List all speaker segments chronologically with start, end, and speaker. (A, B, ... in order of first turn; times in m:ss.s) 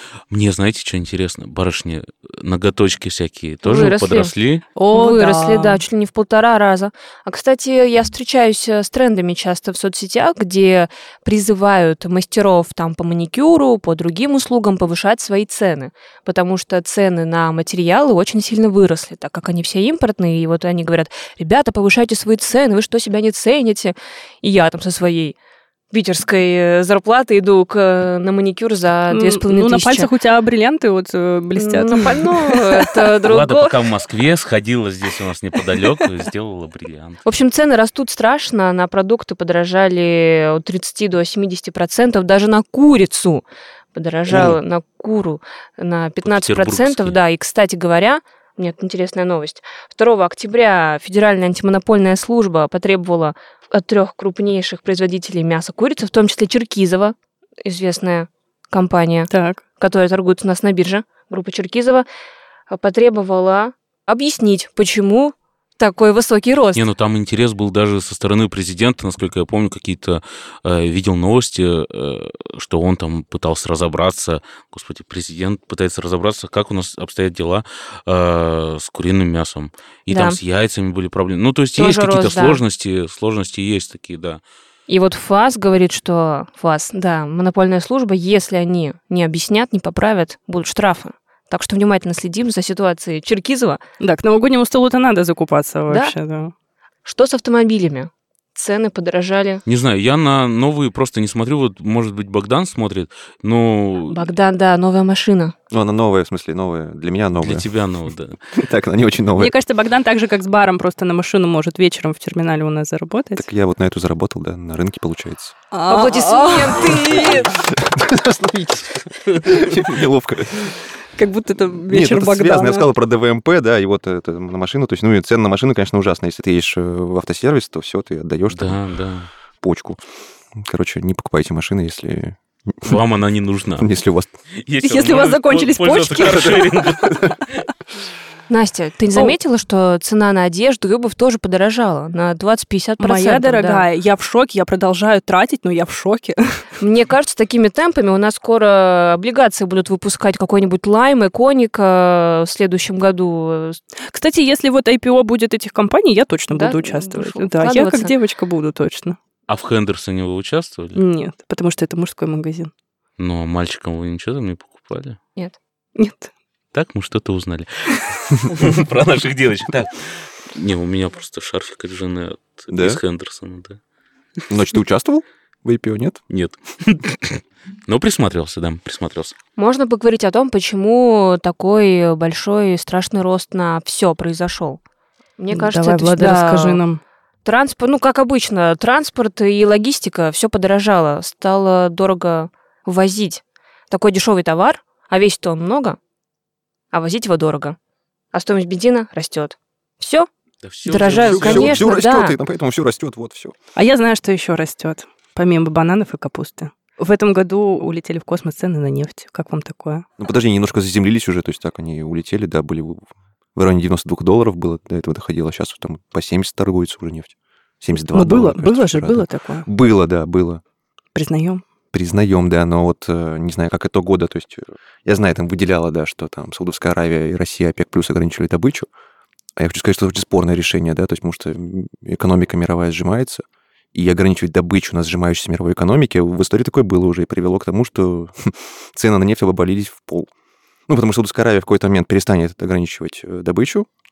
0:00.3-0:04.6 A
0:03.6-0:04.3 B
0:04.8-0:05.8 C
0:04.9-0:25.4 B
0:25.9-0:30.1 B
0:29.1-0:33.0 C
0:31.6-0:33.8 B
0:33.2-0:37.2 A
0:37.2-1:02.0 B
0:44.3-0:44.6 A
0:46.2-0:47.2 A
0:59.3-0:59.6 C
1:02.7-1:06.8 B
1:06.7-1:24.4 A
1:20.1-1:20.4 B
1:21.7-1:22.6 B
1:24.9-1:33.8 B
1:34.0-1:36.5 C
1:35.9-1:36.1 B
1:37.0-1:39.6 B
1:39.6-1:44.2 A
1:44.1-1:45.5 B
1:45.7-1:47.7 D
1:47.4-1:48.4 A
1:48.5-1:49.5 D
1:49.4-1:53.4 C
1:53.4-1:55.5 D
1:55.7-1:57.3 C
1:55.9-1:57.5 B
1:57.4-2:00.8 D
2:01.2-2:02.9 C
2:01.9-2:08.8 D
2:08.5-2:09.3 A
2:09.6-2:10.0 D
2:10.5-2:13.0 D
2:12.8-2:13.9 A
2:13.8-2:14.3 D
2:14.5-2:17.6 A
2:14.8-2:17.1 C
2:18.5-2:23.9 B
2:23.0-2:26.6 C
2:26.8-2:33.8 B
2:34.0-2:39.2 C
2:36.5-2:38.1 B
2:39.5-2:41.0 A
2:40.9-2:42.7 C
2:43.2-2:45.2 A
2:46.0-2:46.3 C
2:46.7-2:53.8 A
2:52.7-2:53.0 D
2:54.5-2:56.2 D
2:56.3-2:59.4 A
2:59.6-3:04.8 B
3:05.4-3:06.8 B
3:05.5-3:07.0 C
3:07.4-3:16.0 B
3:16.9-3:17.8 B
3:18.3-3:20.3 B
3:20.6-3:21.9 A
3:20.8-3:22.4 B
3:21.1-3:23.5 D
3:23.8-3:30.0 C
3:30.2-3:33.0 D
3:33.5-3:40.6 D
3:38.1-3:39.7 C
3:41.1-3:41.6 C
3:41.9-3:48.9 D
3:49.6-4:00.3 D
4:00.9-4:03.9 D